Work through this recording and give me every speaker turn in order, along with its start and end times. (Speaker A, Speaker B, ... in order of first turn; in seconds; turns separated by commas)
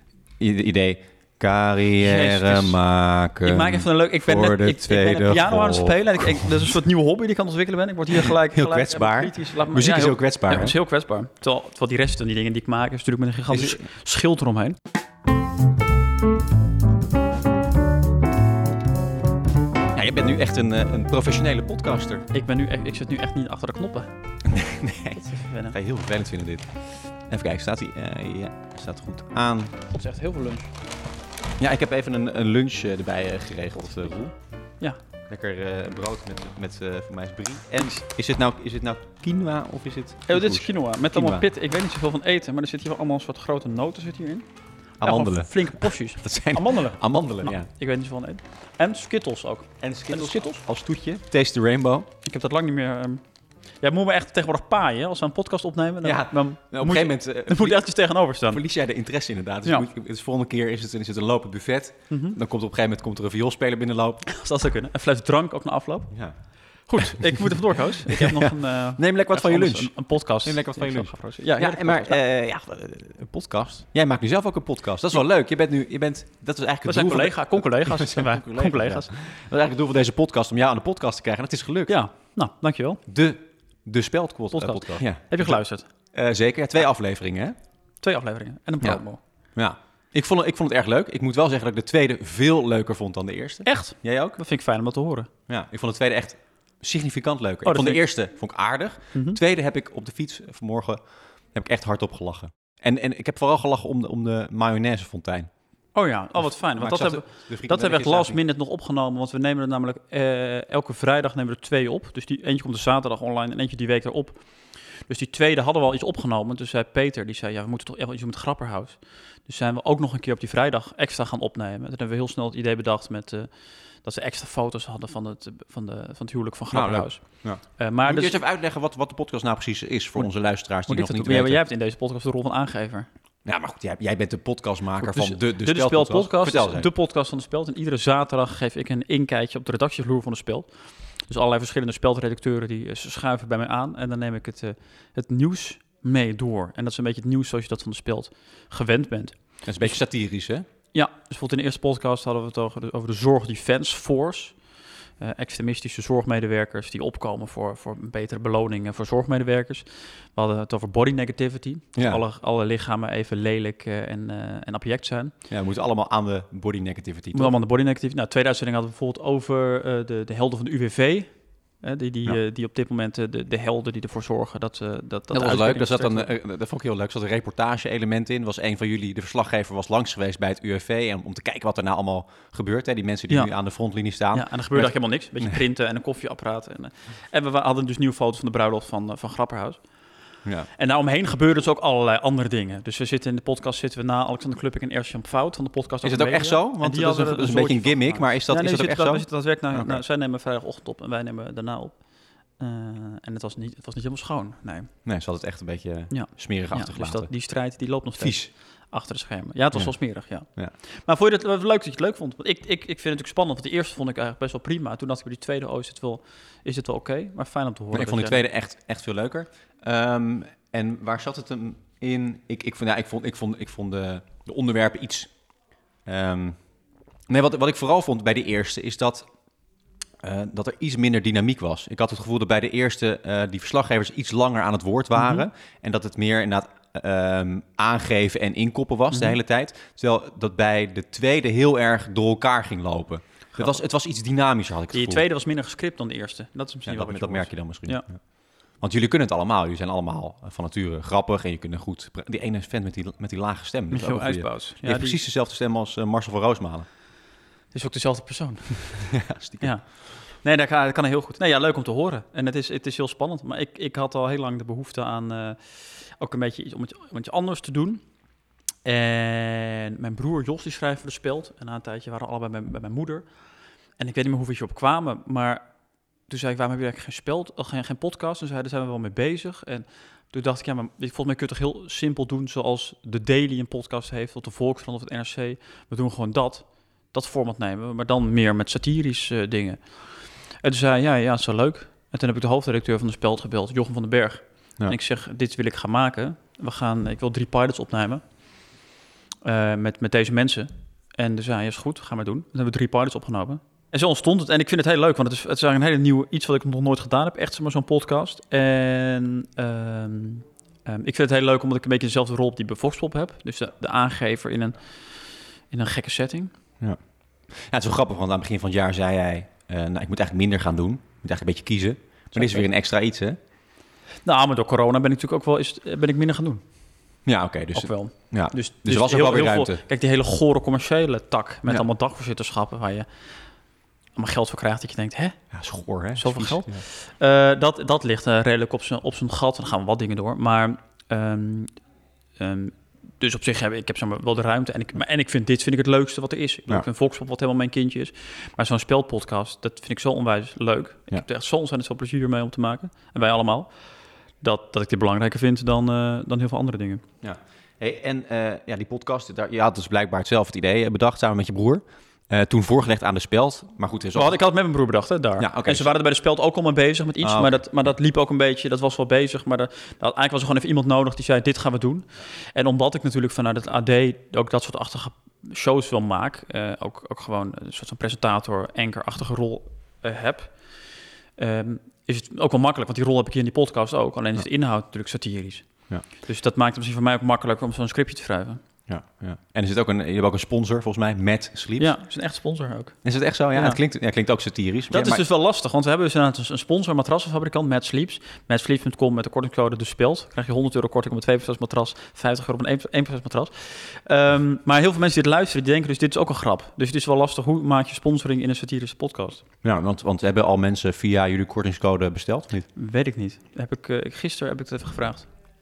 Speaker A: 0.4-6.2, Speaker B: 2.0-2.8, Speaker B: 3.4-14.8, Speaker A: 8.2-10.8, Speaker A: 13.5-13.8, Speaker A: 19.9-22.3, Speaker B: 22.3-24.1, Speaker A: 24.4-26.7, Speaker B: 25.1-25.8, Speaker A: 27.3-29.7, Speaker B: 29.9-30.7, Speaker A: 31.6-34.3, Speaker A: 35.3-41.5, Speaker B: 40.3-44.5, Speaker A: 45.0-47.7, Speaker B: 45.0-50.6, Speaker A: 49.8-52.1, Speaker B: 52.2-53.2, Speaker B: 53.8-58.6, Speaker A: 56.0-64.2, Speaker B: 62.1-62.4, Speaker B: 64.2-66.1, Speaker B: 66.8-72.2, Speaker A: 67.0-81.9, Speaker B: 76.9-79.1, Speaker B: 81.9-83.0, Speaker A: 83.1-85.6, Speaker B: 84.5-85.9, Speaker A: 86.1-87.5, Speaker B: 88.0-89.2, Speaker A: 89.5-94.4, Speaker B: 93.6-95.3, Speaker A: 95.5-101.0, Speaker B: 97.6-98.0, Speaker B: 99.1-99.4, Speaker A: 101.5-105.5, Speaker B: 105.9-123.5, Speaker A: 106.8-108.4, Speaker B: 124.0-128.4, Speaker A: 126.7-131.6, Speaker B: 130.9-133.1, Speaker A: 133.4-136.9, Speaker B: 135.0-140.7, Speaker B: 141.2-150.0, Speaker A: 149.7-150.7, Speaker B: 150.9-154.7, Speaker B: 155.2-165.3, Speaker A: 162.0-162.2, Speaker A: 165.5-167.5, Speaker B: 167.3-176.3, Speaker A: 175.3-185.6, Speaker B: 184.3-189.9, Speaker B: 190.8-204.9, Speaker A: 196.0-200.0, Speaker A: 205.1-207.3, Speaker B: 206.1-218.4, Speaker A: 208.2-208.5, Speaker A: 217.9-225.4, Speaker A: 226.1-226.6, Speaker A: 227.3-229.3, Speaker A: 230.2-245.2, Speaker B: 235.2-235.5, Speaker B: 239.1-239.4, Speaker B: 244.9-248.1, Speaker A: 246.8-248.2, Speaker A: 248.8-256.9, Speaker B: 253.9-255.2, Speaker B: 257.7-268.0, Speaker A: 259.1-259.7, Speaker B: 268.9-273.2, Speaker B: 274.0-275.6, Speaker B: 276.3-290.0, Speaker B: 290.5-298.2, Speaker B: 299.4-316.5, Speaker A: 317.5-323.4, Speaker B: 322.4-322.7, Speaker B: 324.2-326.6, Speaker A: 327.2-329.8, Speaker B: 327.7-333.1, Speaker B: 334.1-335.4, Speaker A: 335.5-336.8, Speaker B: 336.2-341.7, Speaker B: 342.4-353.7, Speaker B: 354.4-357.0, Speaker A: 357.2-364.4, Speaker B: 364.1-380.6, Speaker A: 365.4-365.9, Speaker A: 367.2-367.6, Speaker B: 381.4-388.6, Speaker A: 388.9-391.9, Speaker B: 391.8-393.0, Speaker A: 393.0-395.2, Speaker B: 393.5-393.8, Speaker B: 394.9-409.4, Speaker A: 409.6-412.7, Speaker B: 412.8-415.3